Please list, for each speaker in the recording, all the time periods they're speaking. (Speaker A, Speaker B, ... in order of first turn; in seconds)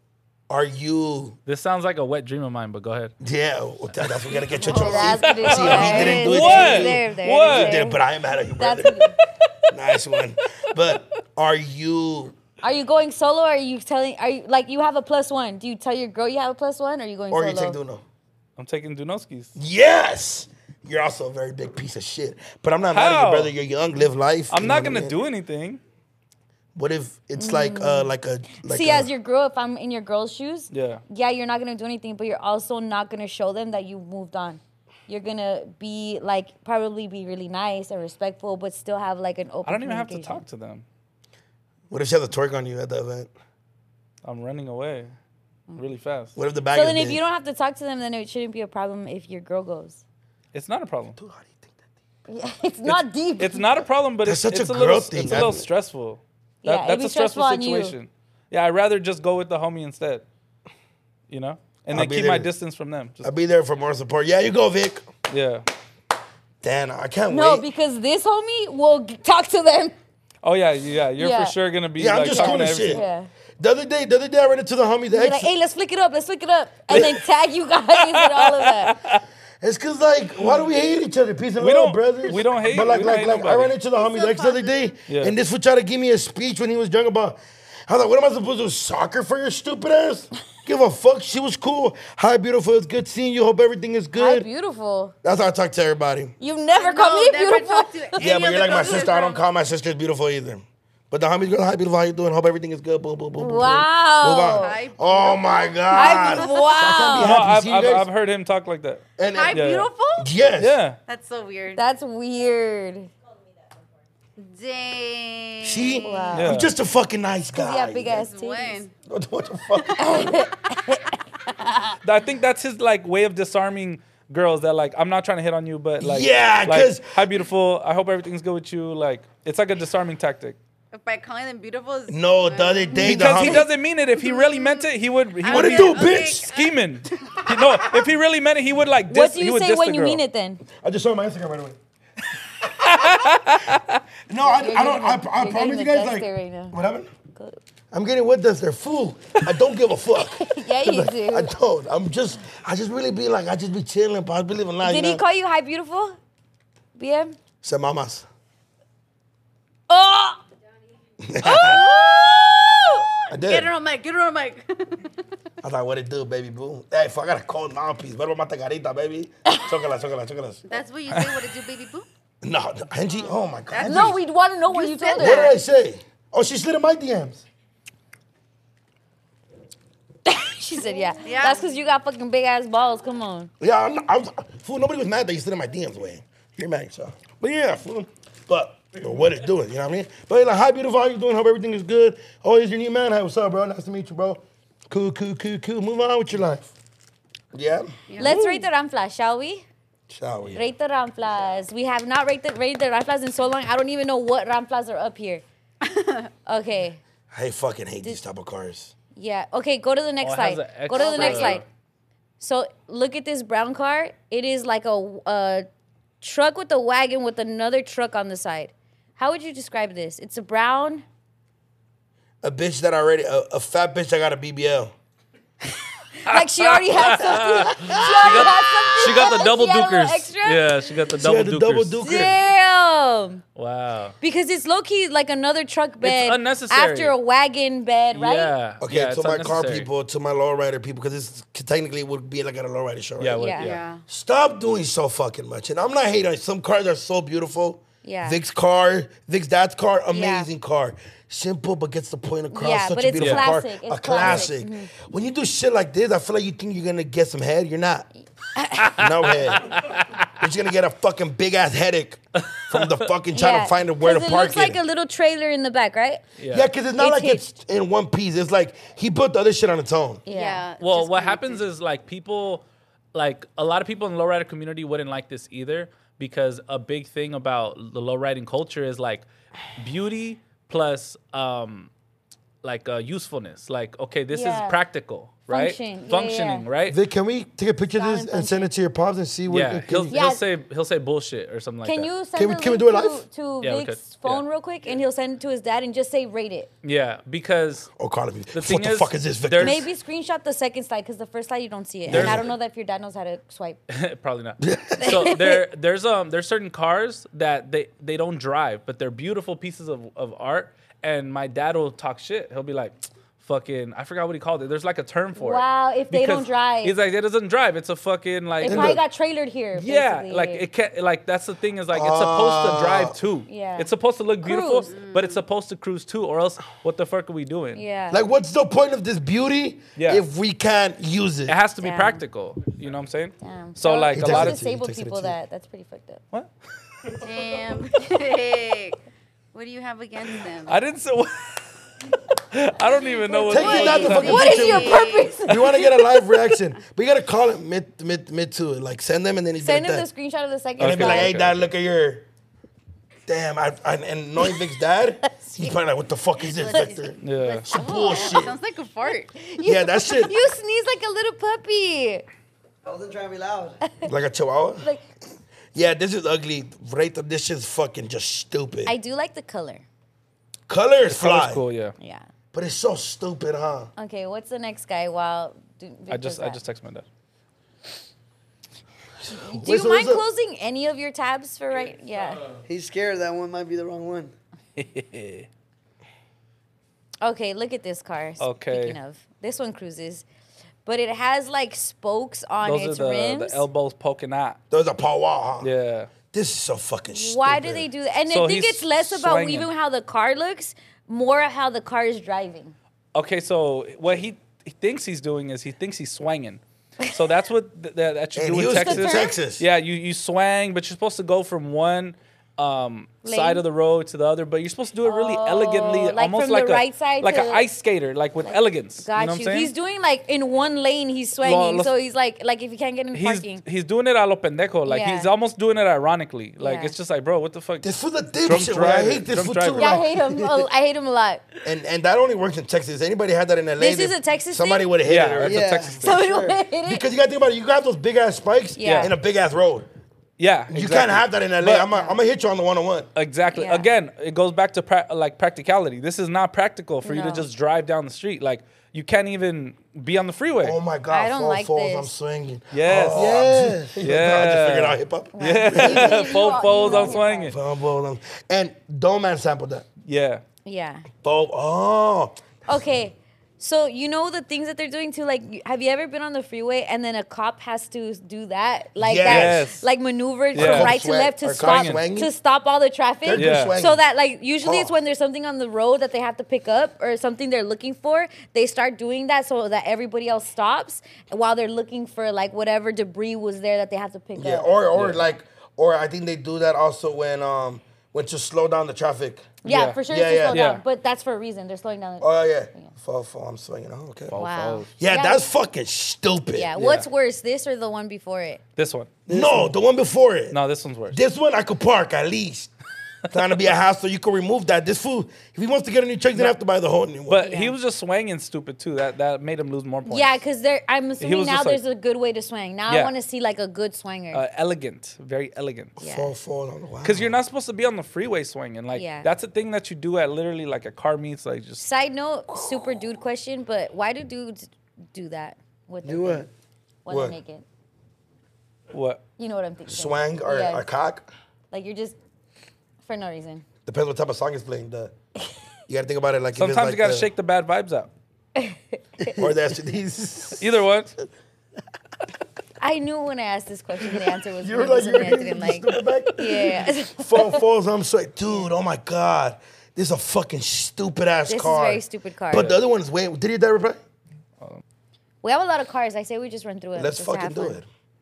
Speaker A: 0.5-1.4, 3.2-9.1, 9.7-12.4, 17.3-18.0, 19.6-25.1, 26.8-29.1, 41.9-43.3, 46.4-47.2, 51.2-51.8, 54.2-55.7, 61.9-62.5, 63.2-65.1, 66.6-67.7, 72.0-73.0, 73.6-75.5, 79.6-94.5, 95.2-96.3, 98.2-108.1, 109.2-109.7, 110.2-110.8, 115.6-118.3, 119.1-120.3, 126.0-127.2, 132.1-133.7, 135.5-136.5, 140.8-141.8, 144.3-147.1, 147.9-155.2, 157.6-158.3, 161.2-161.8, 163.3-163.7, 165.6-170.7, 172.4-174.2, 175.2-177.4, 183.6-196.7, 197.5-198.3, 200.1-200.6, 207.3-208.9, 222.4-224.9, 227.7-229.4, 231.2-232.4, 238.8-243.5, 244.1-258.1, 259.0-259.8, 260.4-264.8, 266.5-270.2, 286.9-290.2, 292.4-293.2, 298.0-299.9, 302.1-302.5, 304.6-305.1, 318.6-319.0, 321.9-323.2, 328.1-331.6, 334.1-335.4, 343.5-350.1, 350.8-352.3, 353.3-357.2, 357.7-358.6, 359.6-360.4, 364.0-364.9, 365.7-368.9, 370.7-371.6, 372.5-373.9, 379.2-380.2, 394.7-395.7, 396.3-397.9, 408.4-409.7, 427.8-430.1, 431.6-435.8, 436.9-439.9, 440.7-443.1, 450.6-459.9, 461.2-462.4, 469.0-469.6, 470.5-472.3, 473.2-474.0, 474.6-474.9, 484.4-489.6, 490.1-490.6, 492.2-494.4, 495.0-496.7, 499.3-500.6, 501.1-502.7, 503.3-507.4, 516.0-517.4, 527.1-527.4, 529.9-531.3, 533.9-535.1, 535.9-537.3, 539.4-540.8, 544.6-554.0, 557.0-557.9
Speaker B: 1.5-3.1, 4.0-4.4, 5.0-7.8, 18.6-19.6, 22.9-23.5, 24.5-25.8, 30.7-31.0, 39.6-40.9, 44.2-45.1, 45.8-46.4, 50.5-51.2, 52.9-60.2, 61.3-63.3, 65.3-65.7, 70.4-73.0, 76.9-77.2, 78.0-79.2, 81.6-83.7, 85.1-85.3, 107.0-109.9, 110.6-111.0, 116.3-116.7, 122.0-130.6, 133.0-140.2, 142.8-144.0, 210.2-211.7, 226.3-232.0, 233.6-234.2, 236.0-237.2, 238.1-239.9, 243.2-243.8, 253.2-253.4, 254.2-254.5, 258.8-260.3, 262.4-263.1, 266.4-266.7, 270.8-281.9, 282.6-287.0, 289.5-292.1, 293.6-294.4, 296.8-297.9, 298.5-299.8, 302.1-302.4, 303.9-319.0, 319.7-327.8, 330.0-330.2, 331.5-334.6, 340.7-341.8, 342.3-344.6, 350.8-351.7, 357.2-357.7, 371.1-371.9, 376.1-377.1, 384.8-385.5, 388.4-389.0, 392.6-394.6, 395.6-396.1, 398.3-399.7, 403.1-419.7, 421.4-421.9, 423.1-427.9, 428.4-430.0, 435.1-436.2, 438.8-439.1, 440.4-441.9, 443.2-450.8, 452.7-457.6, 460.1-460.4, 469.2-469.9, 470.6-470.9, 471.6-472.0, 473.4-473.8, 484.9-485.2, 489.6-490.8, 494.3-494.9, 496.8-497.1, 498.8-499.2, 500.5-501.2, 507.3-510.4, 511.2-511.8, 512.9-513.1, 514.3-516.0, 517.0-521.8, 528.9-529.2, 536.6-538.1, 540.6-541.1
Speaker C: 4.6-8.0, 8.6-9.2, 12.6-17.8, 27.4-28.1, 28.6-40.4, 46.7-50.0, 52.3-53.8, 56.6-58.0, 67.3-70.0, 71.2-71.5, 72.3-73.3, 75.1-79.0, 94.2-95.1, 96.4-99.1, 103.4-104.8, 105.9-107.4, 111.8-113.1, 116.0-116.6, 117.5-118.8, 120.0-121.8, 133.0-133.6, 139.1-140.6, 144.4-146.8, 150.2-151.5, 154.8-156.2, 157.0-157.3, 159.9-160.4, 161.4-161.8, 162.6-163.0, 173.8-175.5, 180.3-183.5, 198.2-199.7, 200.5-205.4, 206.5-207.0, 209.2-211.6, 212.4-215.7, 216.2-221.1, 225.7-230.9, 232.0-233.4, 234.2-238.6, 243.4-243.7, 248.0-248.4, 250.1-250.5, 252.5-254.9, 258.5-259.0, 263.3-266.2, 267.0-267.4, 270.3-270.7, 284.3-284.8, 285.5-286.7, 287.9-288.7, 290.1-290.4, 291.9-296.7, 299.6-303.8, 305.0-305.6, 315.4-316.9, 318.6-320.7, 323.5-323.9, 324.4-324.9, 327.8-328.2, 331.8-332.2, 333.4-336.2, 343.3-345.9, 349.6-351.3, 355.4-355.8, 357.7-358.4, 359.1-362.2, 368.9-369.8, 372.0-372.3, 374.0-376.6, 379.3-382.4, 387.2-390.2, 390.9-393.6, 397.1-402.8, 408.7-409.4, 413.2-413.6, 415.1-417.6, 418.4-423.6, 424.9-425.3, 426.6-426.9, 429.8-431.4, 433.8-434.9, 436.0-437.0, 438.8-439.1, 443.5-443.9, 447.1-447.5, 451.1-452.1, 455.4-457.6, 460.6-461.1, 462.7-484.7, 489.6-492.9, 494.3-495.5, 496.5-498.6, 507.4-507.7, 510.1-514.4, 516.0-516.3, 518.9-519.3, 521.8-526.5, 527.0-527.6, 529.4-530.8, 531.7-532.2, 533.0-533.6, 538.6-539.4, 542.8-547.6, 551.5-552.8, 555.4-557.8
Speaker D: 84.0-84.7, 96.7-99.4, 104.5-106.8, 109.3-110.3, 111.1-111.8, 114.4-116.3, 118.0-118.9, 119.8-120.4, 130.9-133.1, 134.2-134.8, 135.4-137.5, 161.5-165.1, 170.7-172.1, 173.1-175.6, 181.2-181.6, 198.1-198.5, 205.8-206.2, 210.9-211.6, 243.6-244.0, 270.3-271.6, 324.9-325.4, 337.2-339.0, 339.5-340.8, 343.4-345.4, 356.5-359.5
Speaker E: 362.9-363.8, 382.7-384.3, 435.4-436.6, 453.1-453.9, 499.3-499.7, 526.0-526.5